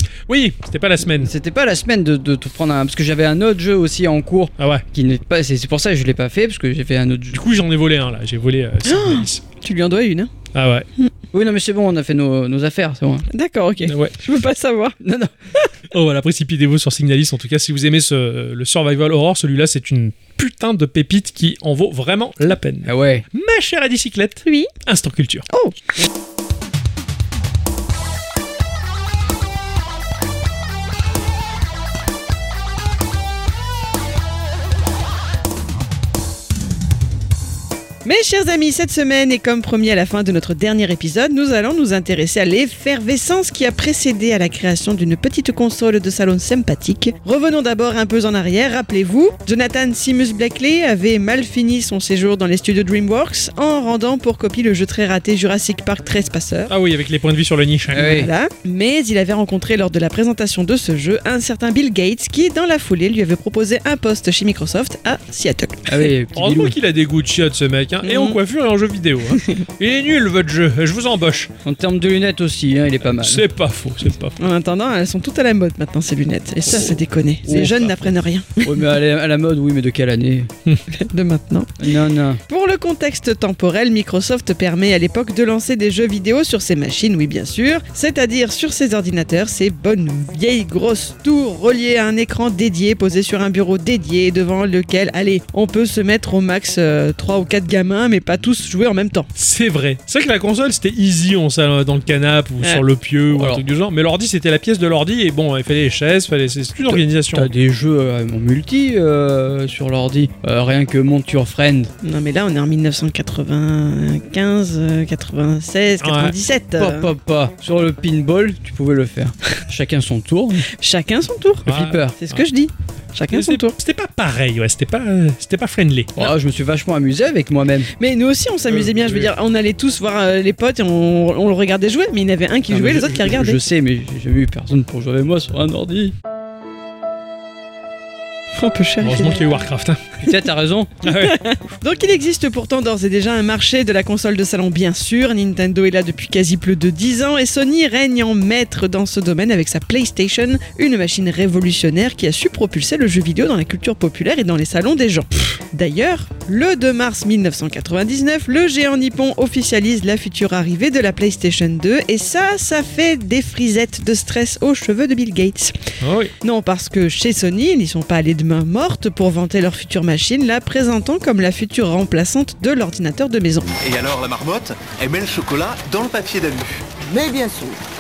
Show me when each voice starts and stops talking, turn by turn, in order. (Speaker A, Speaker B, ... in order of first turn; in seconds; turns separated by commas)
Speaker A: 0.3-1.3, Speaker B: 1.0-7.4, Speaker A: 4.6-4.8, Speaker A: 7.3-9.4, Speaker C: 8.8-10.3, Speaker A: 10.5-10.9, Speaker B: 11.3-13.3, Speaker C: 13.3-15.0, Speaker A: 13.9-14.2, Speaker B: 15.0-15.3, Speaker A: 15.9-25.4, Speaker B: 22.8-23.2, Speaker C: 24.4-24.7, Speaker C: 25.5-25.8, Speaker C: 38.0-56.7, Speaker A: 56.7-58.2, Speaker B: 57.9-58.3, Speaker C: 58.0-66.1, Speaker B: 65.9-66.7, Speaker A: 66.3-71.5, Speaker C: 68.0-68.4, Speaker C: 69.3-69.6, Speaker B: 71.6-73.4, Speaker A: 73.1-74.3, Speaker C: 74.4-78.7, Speaker B: 77.4-77.9, Speaker A: 77.5-77.9, Speaker B: 78.6-80.5, Speaker C: 80.9-81.8, Speaker B: 81.8-82.4, Speaker C: 82.5-99.3, Speaker A: 99.3-107.5, Speaker B: 103.3-103.6, Speaker B: 106.9-111.9, Speaker C: 112.0-117.1, Speaker A: 116.0-116.3, Speaker B: 116.8-120.7, Speaker C: 120.7-123.7, Speaker B: 121.7-122.2, Speaker A: 121.7-122.4, Speaker A: 123.3-126.2, Speaker B: 126.2-127.9, Speaker C: 128.0-133.6, Speaker A: 128.7-129.3, Speaker B: 132.7-136.1, Speaker C: 138.5-139.4, Speaker A: 139.0-140.2, Speaker B: 140.2-140.9, Speaker A: 141.0-141.4, Speaker C: 141.0-165.8, Speaker A: 166.0-166.3, Speaker C: 166.4-173.7, Speaker D: 173.8-177.8